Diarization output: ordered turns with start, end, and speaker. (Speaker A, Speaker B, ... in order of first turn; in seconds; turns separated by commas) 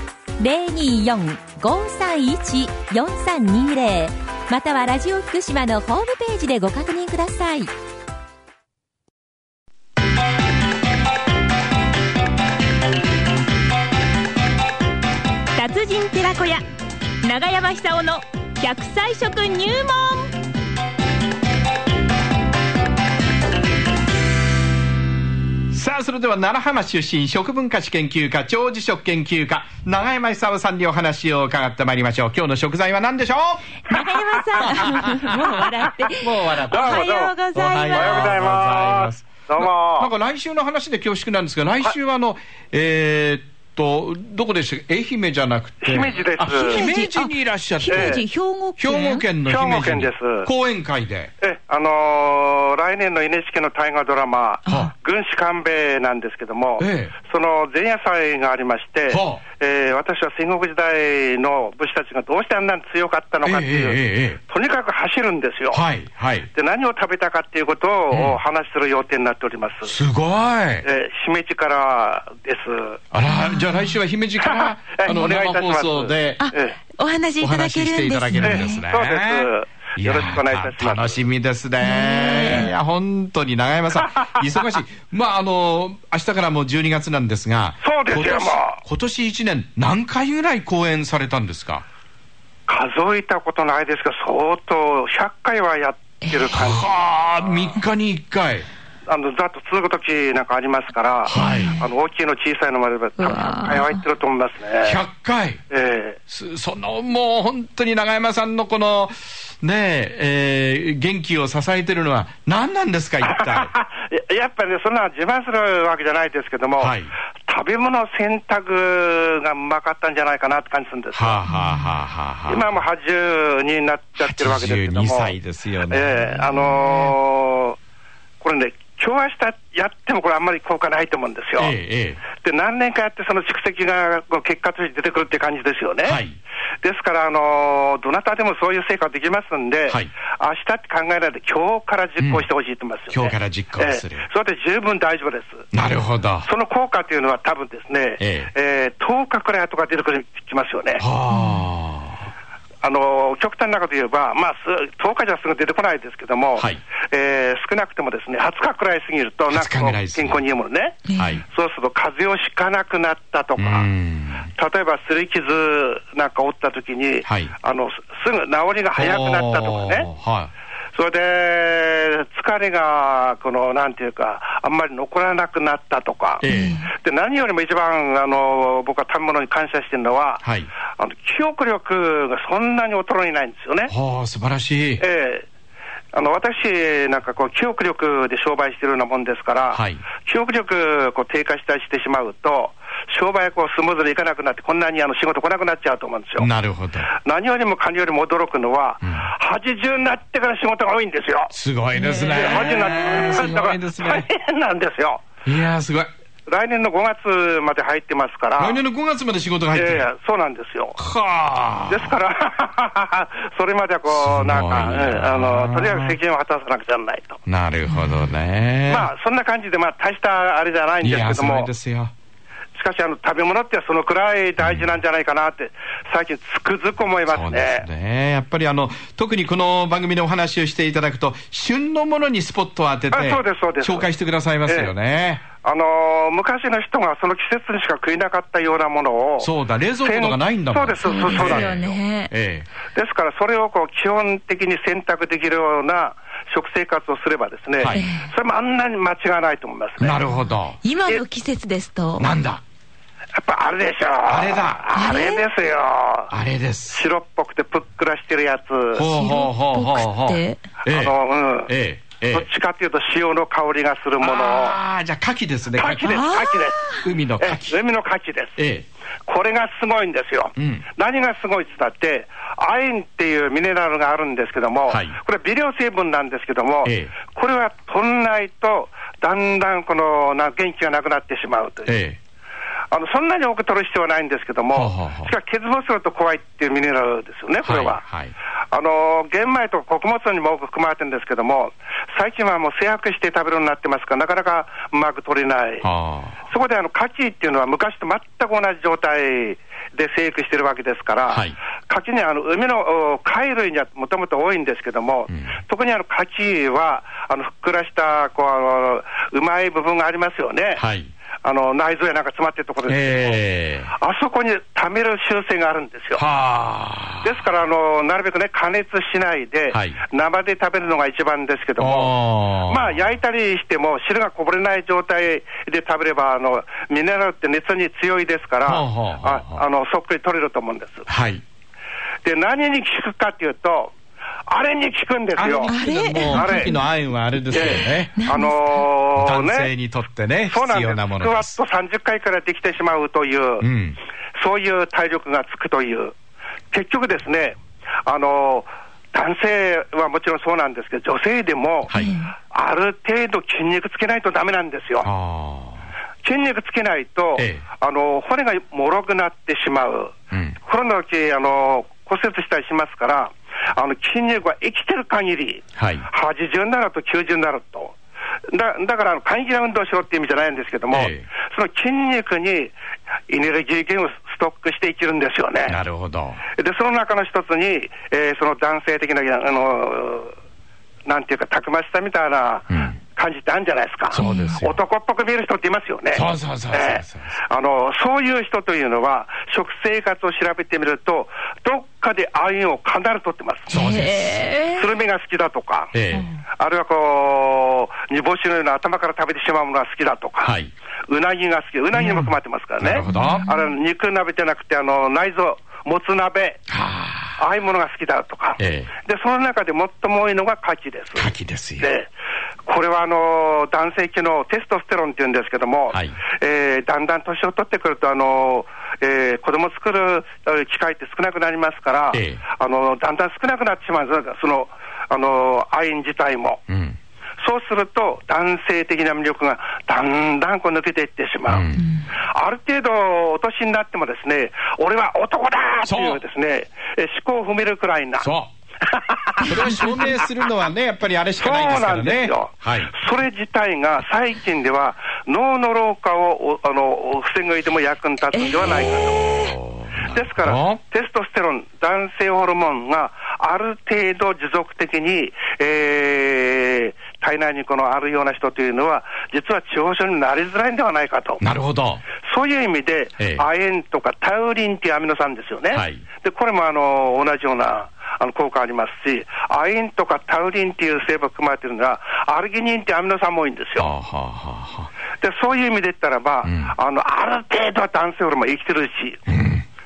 Speaker A: 0.4-7.7, Speaker B: 15.6-16.6, Speaker B: 17.2-20.3, Speaker C: 25.7-33.7, Speaker A: 33.9-36.2, Speaker B: 34.2-35.4, Speaker D: 34.6-35.0, Speaker C: 36.2-48.2, Speaker B: 36.4-38.4, Speaker D: 36.7-40.1, Speaker D: 45.8-46.9, Speaker B: 46.5-49.3, Speaker D: 47.9-48.2, Speaker C: 48.8-51.3, Speaker D: 49.5-50.5, Speaker D: 51.4-65.8, Speaker C: 54.7-54.9, Speaker C: 56.8-57.1, Speaker C: 59.1-59.4, Speaker C: 63.5-64.4, Speaker C: 65.7-66.5, Speaker D: 66.5-70.0, Speaker C: 68.1-68.4, Speaker C: 69.8-70.9, Speaker D: 70.8-73.0, Speaker C: 73.1-76.5, Speaker D: 74.4-76.8, Speaker B: 76.4-78.8, Speaker C: 77.4-91.8, Speaker D: 78.4-81.3, Speaker B: 81.8-82.7, Speaker D: 82.3-82.7, Speaker D: 87.8-88.8, Speaker D: 92.7-97.8, Speaker C: 96.5-98.7, Speaker D: 99.1-105.0, Speaker C: 101.2-101.8, Speaker B: 101.4-101.7, Speaker B: 103.2-104.0, Speaker C: 104.8-105.6, Speaker D: 105.7-106.2, Speaker C: 106.3-113.7, Speaker D: 113.2-121.4, Speaker C: 116.8-117.1, Speaker C: 121.1-122.7, Speaker D: 122.5-125.3, Speaker C: 124.2-127.1, Speaker D: 125.9-127.8, Speaker D: 128.4-131.8, Speaker C: 131.6-132.2, Speaker D: 132.3-136.2, Speaker C: 136.1-136.3, Speaker D: 136.8-145.7, Speaker C: 142.2-142.5, Speaker C: 143.1-144.2, Speaker C: 145.7-146.5, Speaker D: 146.4-151.1, Speaker C: 148.2-148.5, Speaker C: 151.0-152.2, Speaker D: 152.8-163.9, Speaker C: 159.5-160.4, Speaker C: 161.2-161.4, Speaker C: 163.6-164.5, Speaker D: 164.5-170.1, Speaker C: 167.2-167.5, Speaker C: 168.9-170.5, Speaker D: 170.9-180.4, Speaker C: 176.4-176.8, Speaker B: 176.5-176.9, Speaker C: 180.4-180.7, Speaker D: 181.0-183.9, Speaker C: 183.9-185.0, Speaker D: 185.0-185.5, Speaker D: 186.1-196.5, Speaker C: 189.7-190.0, Speaker C: 196.4-197.1, Speaker D: 197.1-201.5, Speaker C: 201.5-204.3, Speaker B: 202.0-203.2, Speaker D: 202.2-205.3, Speaker C: 205.4-206.1, Speaker D: 206.5-208.8, Speaker C: 208.6-210.1, Speaker D: 209.7-211.0, Speaker C: 211.0-212.2, Speaker D: 211.9-217.4, Speaker C: 214.1-216.2, Speaker C: 217.5-219.1, Speaker D: 218.9-221.7, Speaker C: 221.0-222.1, Speaker D: 222.8-227.9, Speaker C: 224.6-224.9, Speaker C: 227.3-235.4, Speaker D: 233.1-234.1, Speaker D: 234.7-234.9, Speaker D: 235.5-239.5, Speaker C: 239.4-242.7, Speaker D: 240.0-242.0, Speaker B: 241.0-242.3, Speaker D: 242.9-250.2, Speaker C: 247.8-248.1, Speaker B: 247.9-248.3, Speaker C: 250.0-250.8, Speaker B: 250.8-252.3, Speaker C: 252.2-252.6, Speaker D: 253.3-256.3, Speaker C: 254.3-254.9, Speaker B: 254.9-255.4, Speaker C: 256.3-257.0, Speaker D: 256.9-259.1, Speaker C: 258.9-261.1, Speaker B: 259.1-260.6, Speaker D: 260.9-261.7, Speaker C: 261.7-262.5, Speaker D: 262.3-264.8, Speaker C: 264.2-266.4, Speaker D: 265.7-268.6, Speaker B: 266.1-267.1, Speaker C: 267.0-267.8, Speaker C: 268.6-268.9, Speaker D: 269.3-282.0, Speaker C: 270.6-270.8, Speaker C: 274.9-275.2, Speaker C: 276.8-277.1, Speaker C: 281.9-282.2, Speaker D: 282.9-288.0, Speaker C: 284.7-285.3, Speaker C: 287.6-288.3, Speaker D: 288.7-295.9, Speaker C: 295.8-296.4, Speaker D: 296.5-310.8, Speaker C: 301.3-301.6, Speaker C: 310.8-311.1, Speaker D: 311.4-316.2, Speaker C: 312.9-313.9, Speaker C: 316.2-317.3, Speaker D: 317.2-331.1, Speaker C: 319.7-320.0, Speaker C: 321.8-322.9, Speaker C: 328.6-329.6, Speaker C: 331.1-331.4, Speaker D: 332.2-333.9, Speaker D: 334.5-335.8, Speaker C: 335.4-338.1, Speaker B: 335.7-336.8, Speaker D: 336.3-336.8, Speaker D: 337.5-339.7, Speaker B: 337.6-338.8, Speaker C: 339.2-341.6, Speaker D: 340.5-343.7, Speaker C: 343.6-344.0, Speaker D: 344.4-346.1, Speaker D: 346.7-352.0, Speaker C: 351.9-352.2, Speaker D: 352.5-355.1, Speaker C: 355.0-355.9, Speaker D: 356.2-367.9, Speaker C: 357.4-357.6, Speaker C: 365.8-366.1, Speaker D: 368.5-372.7, Speaker C: 370.9-371.3, Speaker D: 373.3-375.8, Speaker C: 375.7-376.4, Speaker D: 376.6-380.4, Speaker D: 381.1-393.7, Speaker C: 384.1-384.8, Speaker C: 386.1-387.4, Speaker C: 393.7-394.4, Speaker B: 393.7-394.9, Speaker D: 394.7-395.9, Speaker C: 395.9-396.3, Speaker D: 396.5-400.6, Speaker C: 400.4-400.7, Speaker D: 401.1-406.6, Speaker C: 401.9-403.5, Speaker B: 403.1-403.6, Speaker C: 406.7-407.4, Speaker D: 407.4-412.1, Speaker C: 408.6-408.9, Speaker C: 411.2-411.9, Speaker D: 412.6-426.6, Speaker C: 415.9-416.2, Speaker C: 422.1-422.4, Speaker C: 426.7-427.0, Speaker D: 427.4-438.3, Speaker C: 431.5-431.9, Speaker C: 435.9-436.2, Speaker C: 438.2-438.5, Speaker D: 438.9-440.2, Speaker C: 439.4-442.9, Speaker D: 441.4-449.5, Speaker C: 448.7-450.8, Speaker D: 450.1-461.4, Speaker C: 461.4-462.1, Speaker D: 462.2-473.9, Speaker C: 463.2-463.4, Speaker C: 465.7-466.0, Speaker C: 473.8-474.9, Speaker D: 475.2-479.2, Speaker C: 476.4-476.7, Speaker C: 479.3-479.6